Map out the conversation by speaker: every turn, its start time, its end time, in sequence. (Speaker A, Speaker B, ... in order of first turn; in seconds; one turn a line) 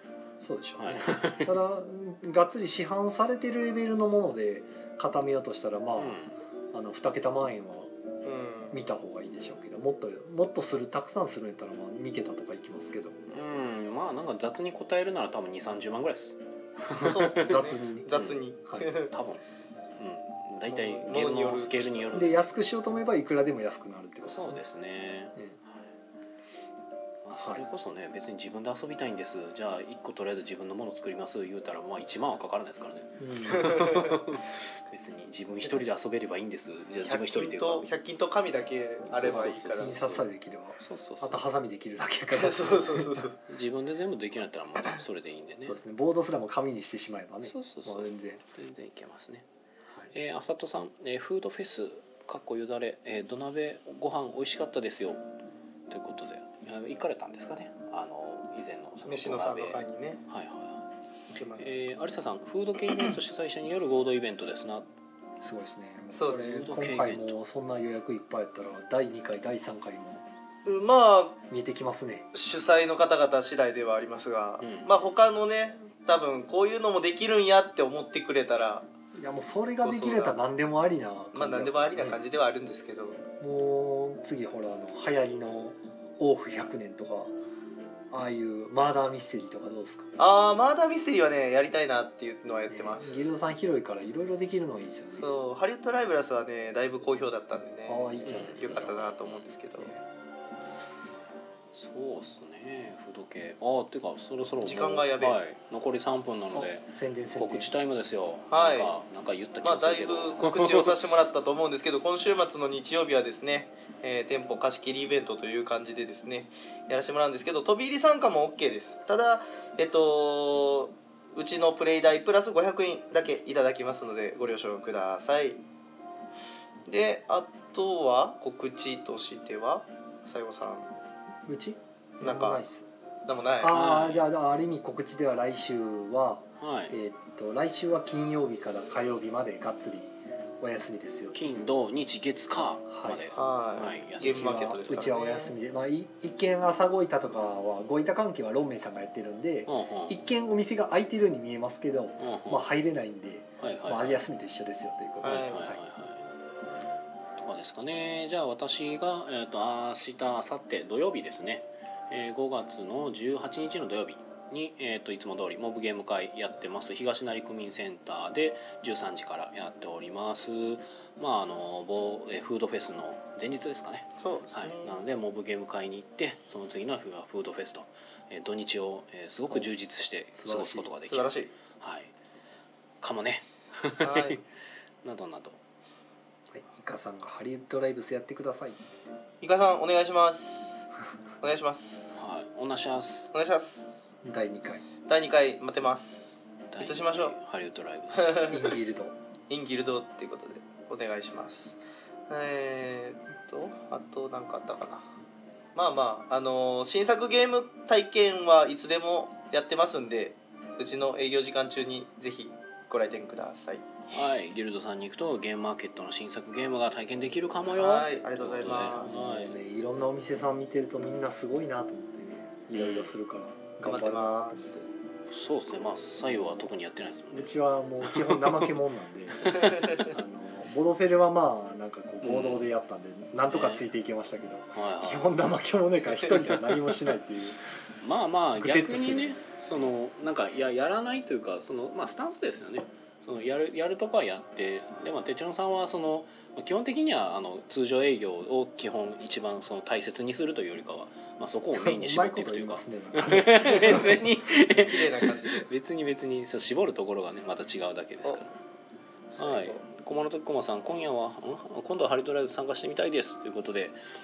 Speaker A: 0.4-6.2
Speaker B: 0.8-1.6
Speaker B: 6.0-6.3
Speaker A: 6.7-7.9
Speaker C: 8.2-8.8
Speaker A: 8.7-13.2
Speaker B: 13.3-19.4
Speaker A: 16.9-18.1
Speaker C: 16.9-19.1
Speaker B: 20.0-22.4
Speaker C: 20.7-22.2
Speaker A: 22.1-24.6
Speaker B: 24.2-25.4
Speaker B: 27.2-37.9
Speaker A: 27.4-27.6
Speaker A: 33.2-33.9
Speaker C: 33.6-34.1
Speaker A: 35.6-36.0
Speaker C: 37.0-40.0
Speaker B: 39.1-40.2
Speaker A: 39.1-43.2
Speaker B: 40.8-41.5
Speaker C: 42.3-43.4
Speaker B: 43.5-45.8
Speaker A: 45.6-48.4
Speaker B: 47.4-49.5
Speaker B: 50.1-55.2
Speaker B: 55.9-60.8
Speaker C: 59.0-60.2
Speaker C: 61.4-61.7
Speaker B: 61.6-64.9
Speaker A: 65.4-70.2
Speaker C: 66.1-66.7
Speaker B: 66.3-67.4
Speaker C: 70.7-71.4
Speaker A: 71.5-72.3
Speaker C: 72.3-78.9
Speaker B: 74.6-75.1
Speaker A: 79.1-82.2
Speaker C: 79.8-80.4
Speaker C: 81.3-83.2
Speaker A: 83.4-87.3
Speaker A: 88.1-90.1
Speaker C: 90.2-93.2
Speaker A: 92.7-95.4
Speaker C: 95.1-99.9
Speaker A: 97.9-98.8
Speaker B: 98.2-99.5
Speaker B: 101.7-110.9
Speaker C: 104.6-105.4
Speaker A: 106.5-107.7
Speaker C: 108.5-108.9
Speaker C: 109.6-125.6
Speaker C: 126.8-130.9
Speaker A: 131.5-132.8
Speaker C: 132.2-132.6
Speaker C: 133.2-133.7
Speaker A: 133.6-141.4
Speaker B: 133.6-134.2
Speaker B: 136.6-137.0
Speaker B: 141.3-144.8
Speaker A: 142.9-143.3
Speaker C: 143.3-145.5
Speaker A: 144.2-155.8
Speaker B: 149.7-150.2
Speaker B: 152.2-152.7
Speaker B: 153.6-154.2
Speaker C: 155.2-155.7
Speaker B: 155.2-156.2
Speaker B: 157.4-182.1
Speaker C: 174.2-175.0
Speaker A: 180.4-180.9
Speaker C: 181.1-181.5
Speaker B: 183.0-184.4
Speaker C: 184.0-184.4
Speaker B: 185.0-185.6
Speaker A: 186.5-188.8
Speaker C: 189.4-190.8
Speaker C: 191.4-192.2
Speaker B: 192.1-193.3
Speaker C: 193.3-194.0
Speaker A: 194.2-194.8
Speaker C: 195.1-197.3
Speaker B: 196.7-198.5
Speaker C: 198.1-198.8
Speaker A: 198.5-199.1
Speaker C: 199.5-201.8
Speaker C: 202.3-205.1
Speaker C: 205.7-213.8
Speaker B: 214.1-219.6
Speaker C: 217.7-219.3
Speaker A: 219.0-224.9
Speaker B: 222.7-223.2
Speaker C: 223.8-224.8
Speaker B: 225.3-228.8
Speaker A: 227.3-237.6
Speaker B: 229.3-229.8
Speaker C: 229.6-230.1
Speaker B: 232.2-232.7
Speaker B: 233.5-233.8
Speaker B: 234.7-235.4
Speaker B: 238.0-258.5
Speaker A: 238.6-239.4
Speaker A: 251.7-254.2
Speaker C: 254.6-255.7
Speaker C: 259.3-259.8
Speaker B: 259.4-264.0